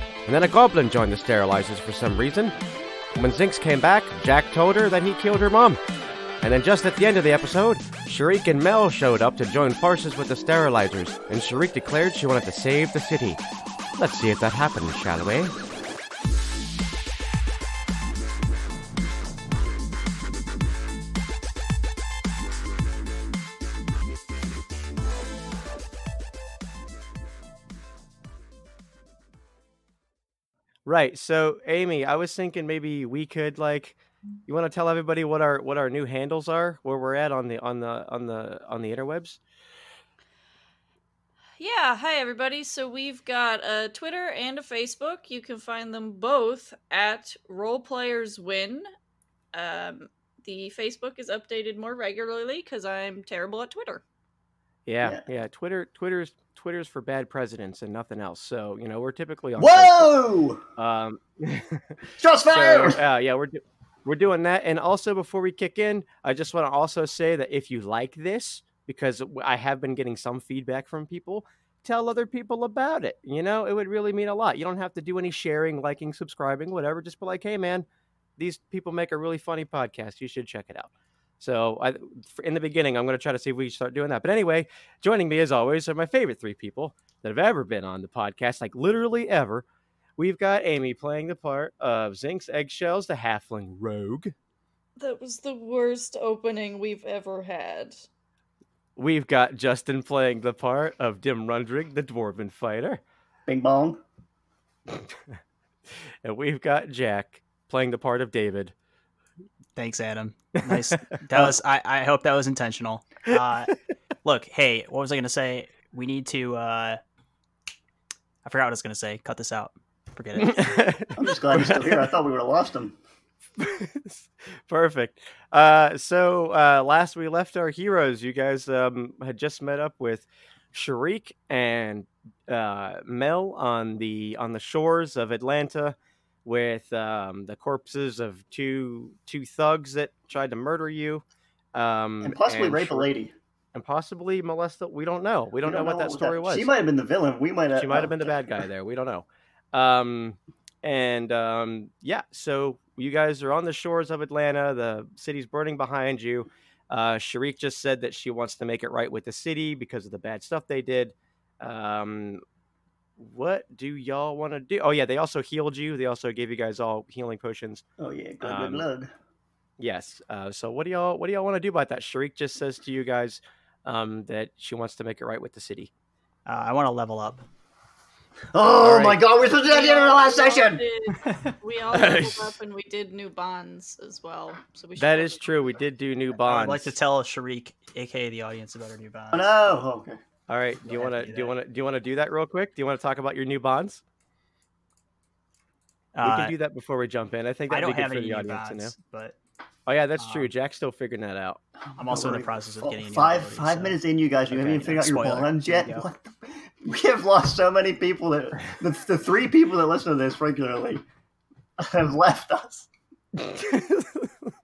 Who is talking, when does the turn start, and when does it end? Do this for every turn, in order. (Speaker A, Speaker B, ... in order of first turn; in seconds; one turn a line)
Speaker A: 0.2-2.5
Speaker A: 3.1-5.8
Speaker A: 6.4-13.4
Speaker A: 13.9-15.5
Speaker A: 30.9-39.4
Speaker B: 41.6-48.9
Speaker B: 49.5-54.0
Speaker A: 54.9-60.1
Speaker C: 59.6-60.6
Speaker A: 60.8-62.0
Speaker C: 62.2-63.0
Speaker A: 62.5-77.8
Speaker A: 78.4-89.7
Speaker A: 90.2-94.3
Speaker B: 95.0-98.1
Speaker A: 99.0-103.0
Speaker C: 103.5-104.0
Speaker A: 104.9-105.2
Speaker A: 106.2-108.7
Speaker D: 109.8-117.0
Speaker D: 118.4-120.7
Speaker A: 120.4-122.1
Speaker C: 121.2-123.0
Speaker A: 123.6-141.2
Speaker A: 141.8-143.1
Speaker C: 142.2-143.3
Speaker A: 143.7-146.7
Speaker C: 145.6-148.3
Speaker A: 147.7-162.4
Speaker A: 163.2-167.8
Speaker C: 168.0-169.1
Speaker A: 168.4-168.9
Speaker A: 169.8-175.9
Speaker D: 176.5-177.4
Speaker C: 178.5-180.8
Speaker A: 178.8-179.2
Speaker B: 179.4-185.5
Speaker D: 181.2-181.6
Speaker A: 181.9-182.5
Speaker A: 185.0-186.9
Speaker D: 186.4-189.6
Speaker C: 189.3-190.2
Speaker A: 190.5-194.0
Speaker D: 190.8-191.5
Speaker D: 196.2-196.6
Speaker A: 196.2-198.9
Speaker D: 197.7-199.4
Speaker A: 199.9-201.6
Speaker D: 200.2-200.5
Speaker D: 202.0-204.0
Speaker C: 202.0-211.0
Speaker D: 204.5-206.1
Speaker C: 211.8-212.9
Speaker A: 213.4-214.5